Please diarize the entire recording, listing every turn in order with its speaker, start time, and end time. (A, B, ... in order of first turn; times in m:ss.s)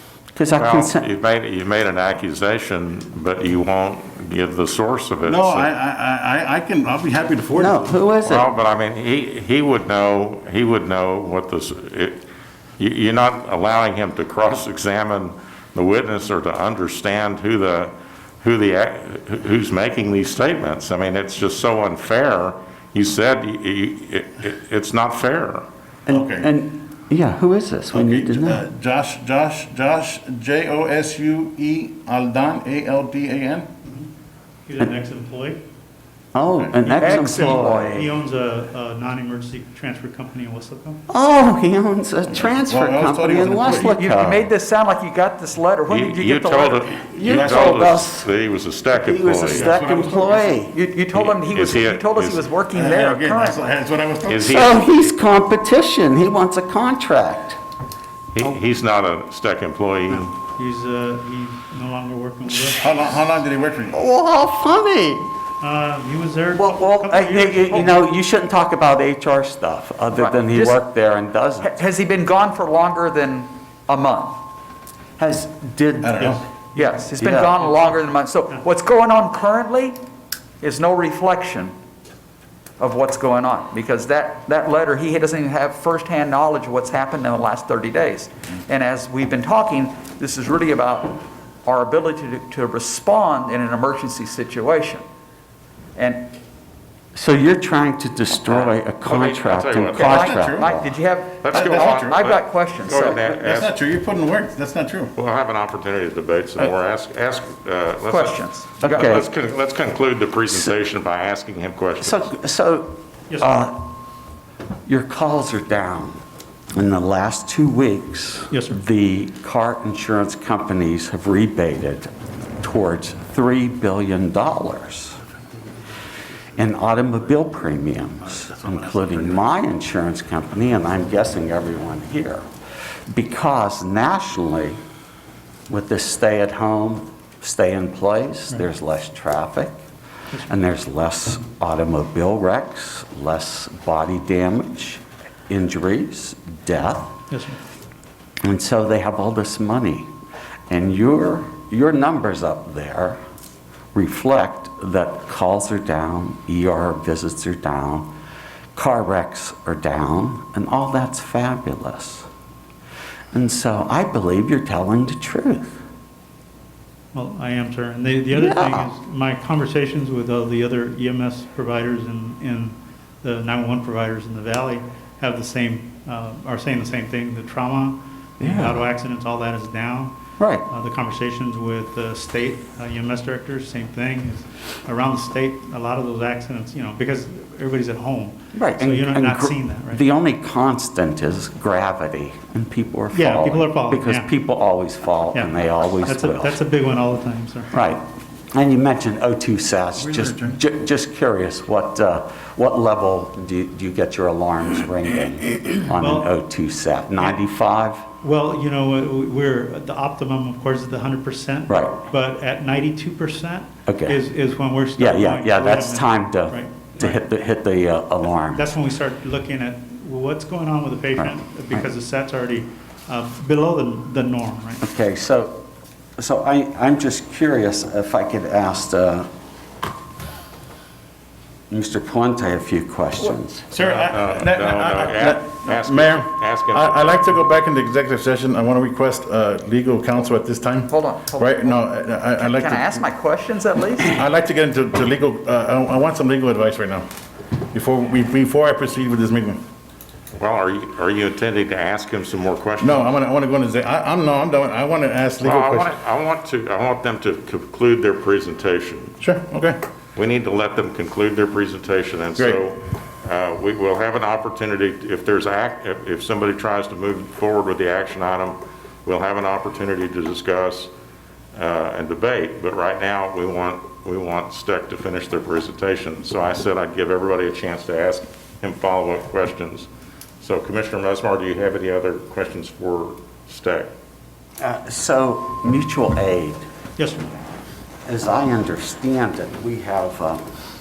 0:00.3-0:01.0 A
0:00.5-0:05.7 B
0:05.2-0:07.9 C
0:07.5-0:08.5 A
0:08.2-0:12.2 B
0:12.8-0:25.6 B
0:26.1-0:26.5 C
0:26.1-0:28.6 A
0:27.9-0:33.7 C
0:34.7-0:35.6 D
0:36.3-0:38.1 A
0:36.5-0:36.9 C
0:36.8-0:41.0 D
0:37.0-0:38.0 E
0:41.1-0:44.5 A
0:42.3-0:44.0 C
0:43.8-0:46.9 E
0:45.9-0:49.8 B
0:47.1-0:48.3 A
0:47.2-0:47.9 C
0:48.9-0:50.8 A
0:49.5-0:50.6 C
0:50.7-0:53.7 E
0:51.1-0:52.4 B
0:52.7-0:54.7 C
0:54.3-0:54.9 B
0:54.4-0:57.6 A
0:58.3-1:00.3 B
1:00.5-1:03.0 D
1:02.8-1:04.0 C
1:03.9-1:05.3 A
1:05.6-1:08.0 D
1:06.5-1:11.8 A
1:10.1-1:10.8 E
1:11.6-1:14.4 E
1:15.2-1:16.4 A
1:16.0-1:16.4 C
1:16.2-1:17.0 D
1:16.8-1:20.0 E
1:17.2-1:17.5 A
1:20.6-1:21.7 E
1:22.8-1:35.0 E
1:36.0-1:36.3 E
1:37.1-1:41.0 A
1:38.4-1:40.3 B
1:39.9-1:43.4 E
1:40.3-1:40.7 C
1:41.4-1:43.8 B
1:41.5-1:42.2 C
1:43.3-1:45.1 C
1:45.1-1:52.2 B
1:48.0-1:49.2 E
1:48.8-1:49.3 A
1:52.0-1:53.9 A
1:54.8-1:56.2 A
1:56.7-2:02.1 A
1:58.5-1:58.8 D
2:02.6-2:05.2 A
2:06.6-2:12.4 A
2:13.1-2:14.8 A
2:15.7-2:19.8 A
2:20.3-2:20.6 D
2:20.4-2:27.1 A
2:27.3-2:27.6 D
2:28.4-2:30.1 A
2:30.7-2:33.2 A
2:33.9-2:38.1 A
2:38.7-2:42.2 A
2:43.3-2:45.8 A
2:47.1-3:00.1 D
2:48.3-2:48.9 A
2:58.4-2:58.8 A
3:00.4-3:00.6 A
3:00.7-3:10.0 D
3:08.5-3:16.6 A
3:13.1-3:14.3 D
3:15.3-3:17.7 D
3:17.7-3:28.0 A
3:20.0-3:20.6 C
3:25.9-3:26.3 D
3:28.2-3:37.2 D
3:31.7-3:32.0 A
3:33.9-3:34.2 A
3:35.0-3:38.8 A
3:38.5-3:44.8 D
3:41.2-3:41.9 A
3:44.8-3:45.6 A
3:46.2-3:49.3 A
3:51.7-3:53.7 A
3:53.7-4:03.0 C
3:53.8-3:57.4 B
4:00.9-4:01.8 E
4:02.4-4:04.2 E
4:04.0-4:07.0 C
4:07.7-4:09.6 C
4:10.4-4:13.1 B
4:12.8-4:15.9 C
4:15.4-4:19.2 B
4:19.2-4:19.8 C
4:20.2-4:30.9 B
4:31.5-4:39.9 B
4:40.4-4:43.9 B
4:44.6-4:46.6 A
4:47.0-4:47.3 D
4:48.0-4:50.4 A